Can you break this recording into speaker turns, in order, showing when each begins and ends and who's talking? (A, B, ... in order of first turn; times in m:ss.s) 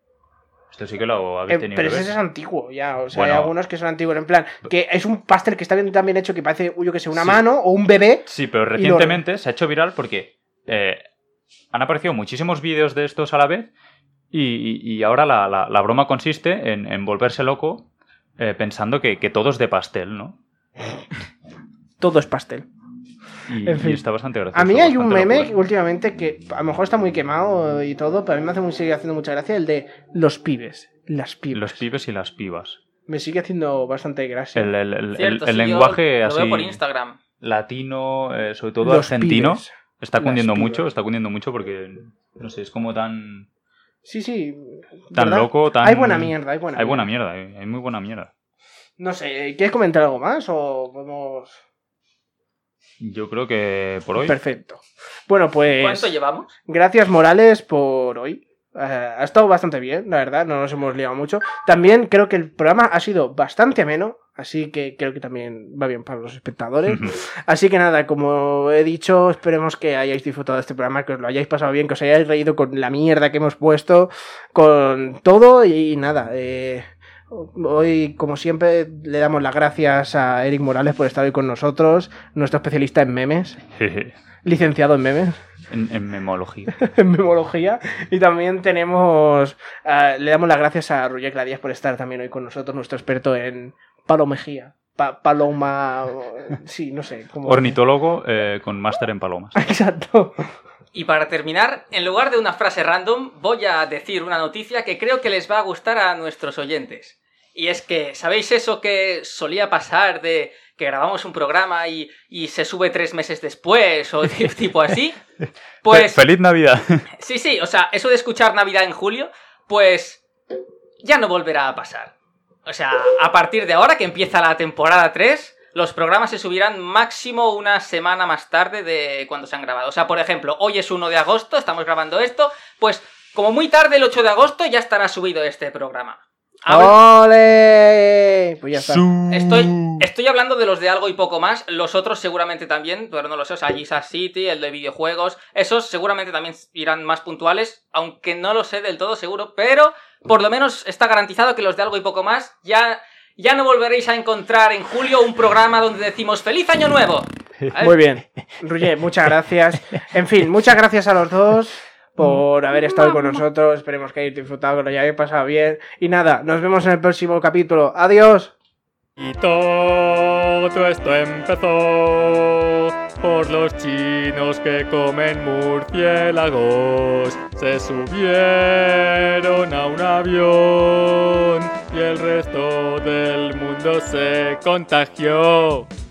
0:00.7-0:02.2 A
0:01.5-0:09.2 B
0:03.1-0:03.5 A
0:07.2-0:07.4 A
0:08.3-0:11.0 A
0:11.7-0:13.7 A
0:14.3-0:17.9 A
0:18.4-0:20.4 A
0:22.0-0:22.7 B
0:23.5-0:25.5 A
0:23.6-0:24.0 B
0:24.5-0:31.8 B
0:31.5-0:32.8 A
0:33.1-0:34.7 B
0:34.6-0:36.8 A
0:35.2-0:37.2 C
0:37.4-0:43.5 A
0:38.8-0:40.9 B
0:44.0-0:47.1 B
0:45.1-0:48.3 A
0:49.0-0:51.6 B
0:53.0-0:54.4 A
0:54.2-0:56.1 B
0:55.7-0:56.5 C
0:56.7-1:23.6 B
1:06.9-1:07.2 A
1:23.8-1:24.2 A
1:24.4-1:25.4 B
1:25.7-1:26.8 A
1:26.8-1:37.8 B
1:37.4-1:39.6 A
1:39.6-1:40.4 B
1:40.9-1:55.2 C
1:54.2-1:54.6 A
1:55.4-1:57.1 A
1:55.8-1:56.2 C
1:57.2-2:00.2 C
2:01.0-2:02.1 C
2:02.7-2:17.0 C
2:16.7-2:19.1 B
2:18.8-2:20.0 A
2:19.3-2:38.0 C
2:37.8-2:48.5 B
2:49.2-3:05.9 D